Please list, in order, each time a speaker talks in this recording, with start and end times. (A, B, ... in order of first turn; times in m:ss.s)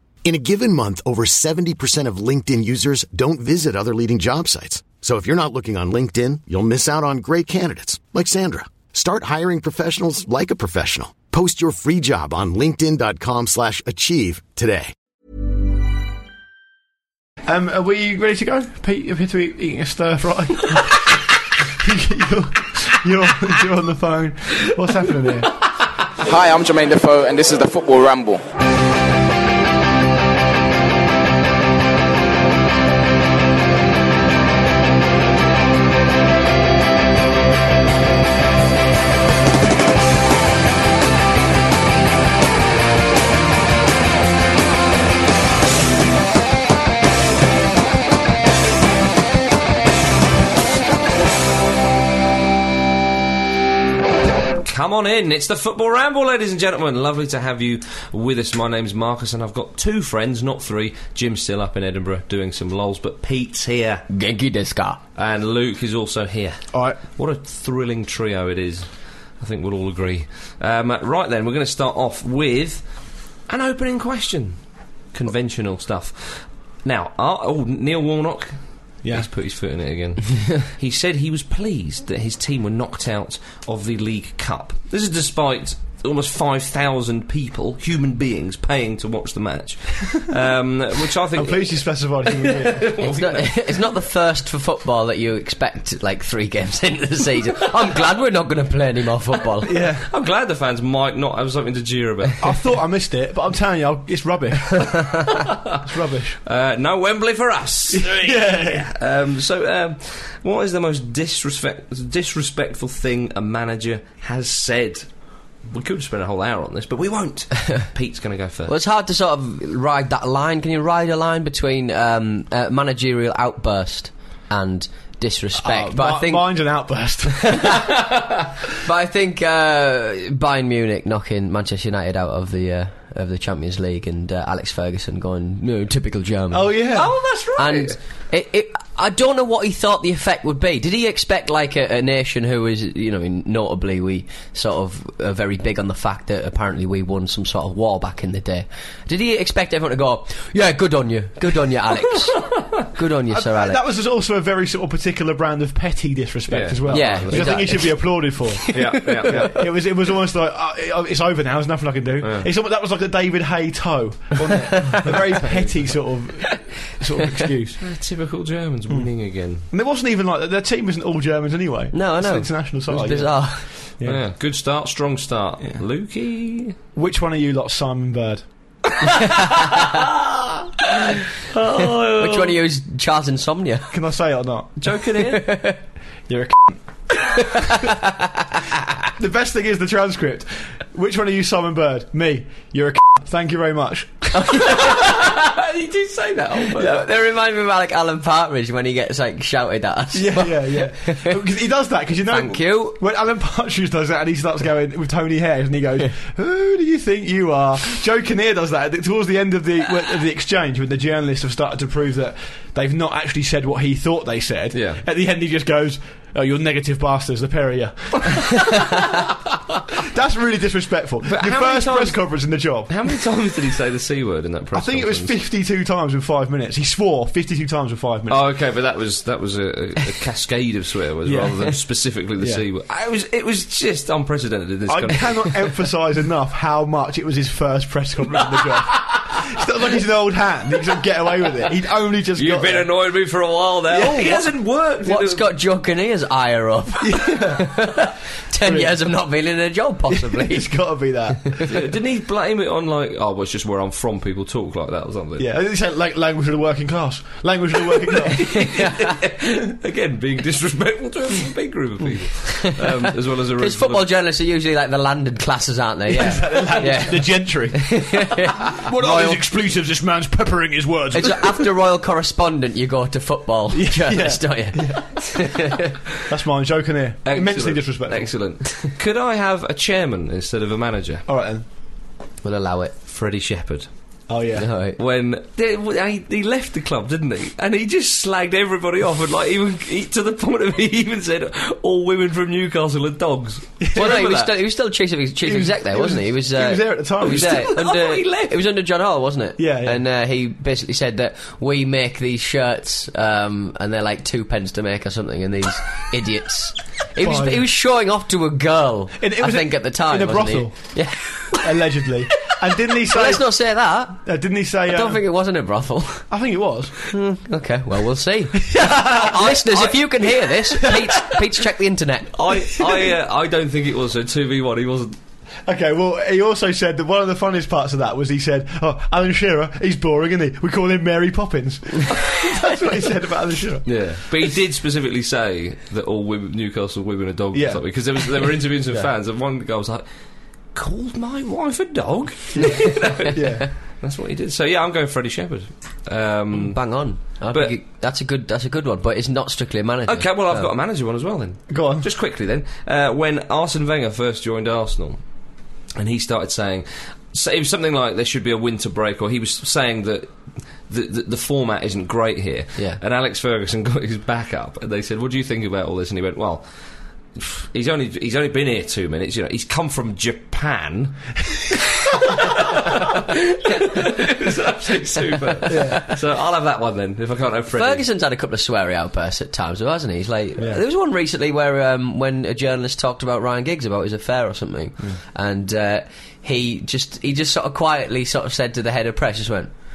0:00.2-0:14.9 A
0:17.4-0:25.5 B
0:26.2-0:28.4 C
0:54.6-1:04.0 D
1:04.1-1:05.0 E
1:05.2-1:06.6 D
1:06.7-1:07.0 B
1:07.2-1:08.9 D
1:09.4-1:12.8 D
1:13.5-1:14.6 D
1:15.1-1:33.8 D
1:31.3-1:32.9 B
1:33.0-1:39.7 E
1:39.6-1:40.0 B
1:40.0-1:42.5 D
1:42.4-1:45.2 B
1:45.3-1:45.8 D
1:45.8-1:46.4 B
1:46.4-1:55.1 D
1:47.9-1:48.8 B
1:55.7-1:58.7 D
1:58.7-2:06.5 E
2:05.6-2:07.8 B
2:07.6-2:08.0 E
2:08.8-2:16.8 E
2:16.5-2:17.1 B
2:16.9-2:18.0 D
2:17.6-2:33.8 E
2:33.3-2:47.8 B
2:36.5-2:37.7 D
2:36.9-2:39.5 E
2:38.7-2:39.5 D
2:42.2-2:42.5 D
2:47.8-2:49.6 D
2:48.9-2:54.2 B
2:51.9-2:53.7 E
2:54.0-2:56.7 D
2:56.9-2:58.4 B
2:59.1-3:00.1 D
3:00.9-3:02.6 D
3:02.1-3:03.9 E
3:03.9-3:04.7 B
3:04.8-3:05.5 D
3:05.3-3:05.8 E
3:06.3-3:06.8 B
3:07.3-3:08.2 E
3:09.0-3:14.9 B
3:14.3-3:15.4 E
3:15.3-3:16.8 D
3:16.5-3:21.4 E
3:20.1-3:38.8 B
3:22.3-3:23.0 E
3:34.7-3:35.0 D
3:40.0-3:42.9 B
3:41.2-3:42.3 D
3:42.9-3:45.3 D
3:44.7-3:48.4 B
3:48.3-3:55.7 D
3:51.2-3:51.8 B
3:52.4-3:52.6 B
3:54.9-4:02.9 B
4:02.4-4:05.5 D
4:03.9-4:04.3 B
4:03.9-4:10.7 E
4:07.0-4:07.7 B
4:08.6-4:09.0 B
4:10.1-4:11.5 B
4:11.7-4:15.4 D
4:15.4-4:18.6 B
4:18.3-4:24.1 D
4:18.4-4:19.1 E
4:23.6-4:29.4 E
4:26.1-4:31.7 B
4:31.1-4:35.9 E
4:33.7-4:35.2 B
4:36.3-4:38.3 B
4:37.2-4:41.2 D
4:41.2-4:41.6 B
4:42.4-4:42.9 E
4:43.1-4:43.9 D
4:44.3-4:44.7 B
4:44.6-4:45.0 E
4:45.0-4:54.5 D
4:53.8-4:54.5 B
4:53.9-5:11.6 E
4:55.4-4:57.7 B
4:57.2-4:58.6 D
4:59.6-5:00.0 B
5:07.2-5:07.6 B
5:09.2-5:11.0 B
5:11.5-5:13.5 B
5:13.0-5:14.2 E
5:14.2-5:15.2 B
5:14.8-5:16.2 E
5:16.3-5:16.9 B
5:17.1-5:22.3 E
5:18.6-5:20.0 B
5:20.7-5:21.4 B
5:22.3-5:25.2 D
5:25.6-5:34.0 B
5:33.8-5:40.0 D
5:37.5-5:37.8 B
5:40.7-5:47.7 D
5:42.5-5:43.7 B
5:42.7-5:43.1 E
5:46.6-5:50.7 E
5:50.1-5:55.2 D
5:51.7-5:52.1 B
5:56.0-6:00.3 D
6:00.9-6:06.6 D
6:07.4-6:18.0 D
6:15.6-6:16.0 B
6:17.8-6:29.7 E